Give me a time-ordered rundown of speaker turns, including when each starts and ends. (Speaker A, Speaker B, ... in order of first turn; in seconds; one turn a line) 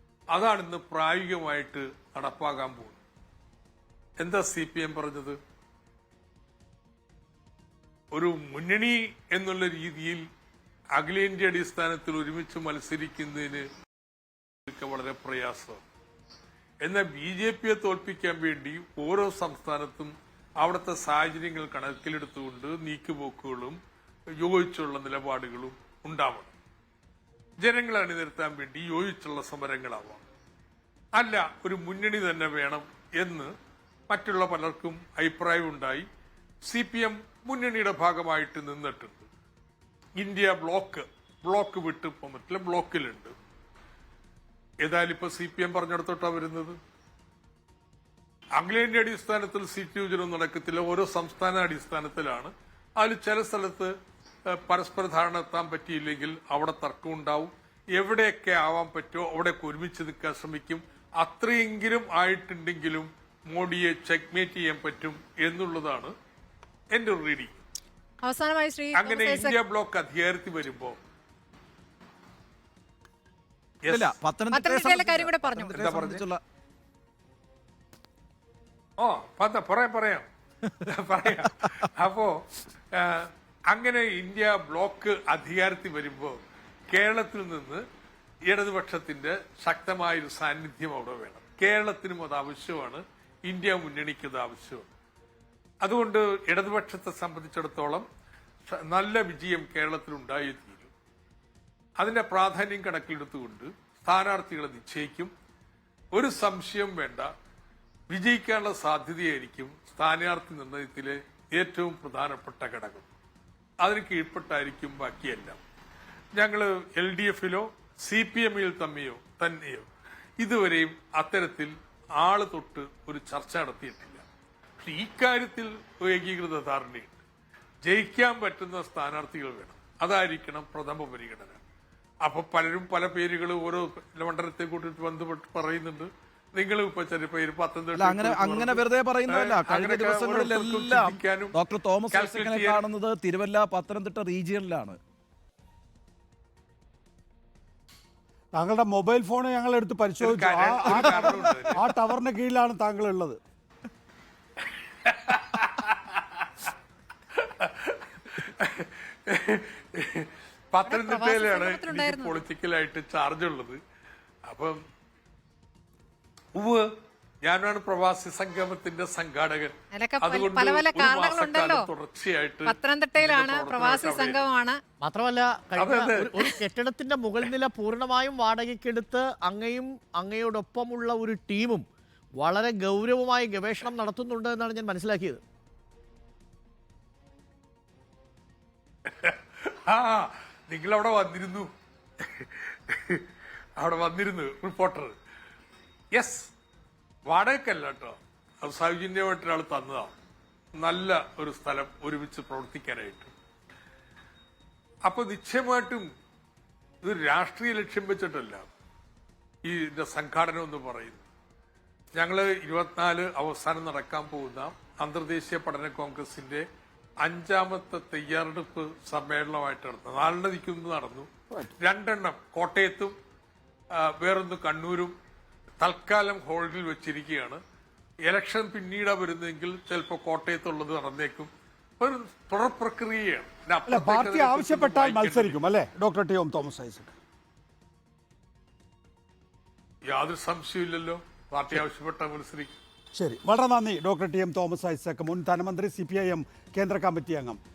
Speaker A: 0.3-3.0
Speaker A: 4.2-5.4
Speaker A: 8.1-10.2
Speaker A: 10.9-13.7
Speaker A: 14.7-15.8
Speaker A: 16.8-23.8
Speaker A: 24.4-26.5
Speaker A: 27.6-30.2
Speaker A: 31.2-33.5
Speaker A: 34.1-36.1
Speaker A: 36.6-39.3
Speaker A: 40.2-43.4
Speaker A: 44.8-46.8
Speaker A: 48.6-53.9
Speaker A: 54.5-66.2
Speaker A: 66.9-67.6
Speaker B: 68.2-69.6
Speaker A: 69.0-71.0
Speaker A: 73.8-74.2
Speaker C: 73.9-76.4
Speaker B: 74.5-75.9
Speaker A: 75.7-76.3
Speaker A: 79.0-80.3
Speaker A: 80.8-82.4
Speaker A: 82.9-86.4
Speaker A: 86.9-87.8
Speaker A: 88.5-94.9
Speaker A: 95.8-98.1
Speaker A: 98.7-100.9
Speaker A: 102.0-105.3
Speaker A: 106.1-107.3
Speaker A: 108.1-113.1
Speaker A: 113.8-115.6
Speaker A: 116.4-124.2
Speaker A: 124.8-127.2
Speaker A: 127.8-131.6
Speaker A: 132.2-141.6
Speaker C: 138.0-145.0
Speaker A: 142.1-142.8
Speaker D: 148.5-153.4
Speaker A: 150.2-151.8
Speaker A: 155.0-156.6
Speaker A: 157.3-163.8
Speaker B: 160.9-162.3
Speaker A: 164.4-164.8
Speaker A: 166.6-174.4
Speaker B: 169.9-171.8
Speaker B: 172.7-174.8
Speaker E: 175.0-181.8
Speaker A: 175.8-176.5
Speaker E: 182.4-185.4
Speaker A: 189.1-191.7
Speaker A: 192.2-195.2
Speaker A: 196.1-196.5
Speaker A: 197.3-200.1
Speaker A: 200.8-203.3
Speaker A: 205.1-206.1
Speaker A: 207.0-208.7
Speaker A: 209.6-211.2
Speaker A: 212.2-216.7
Speaker A: 217.2-223.1
Speaker A: 223.9-225.2
Speaker A: 225.8-227.6
Speaker A: 228.2-235.6
Speaker D: 233.9-237.2
Speaker A: 240.1-242.7
Speaker D: 243.1-247.6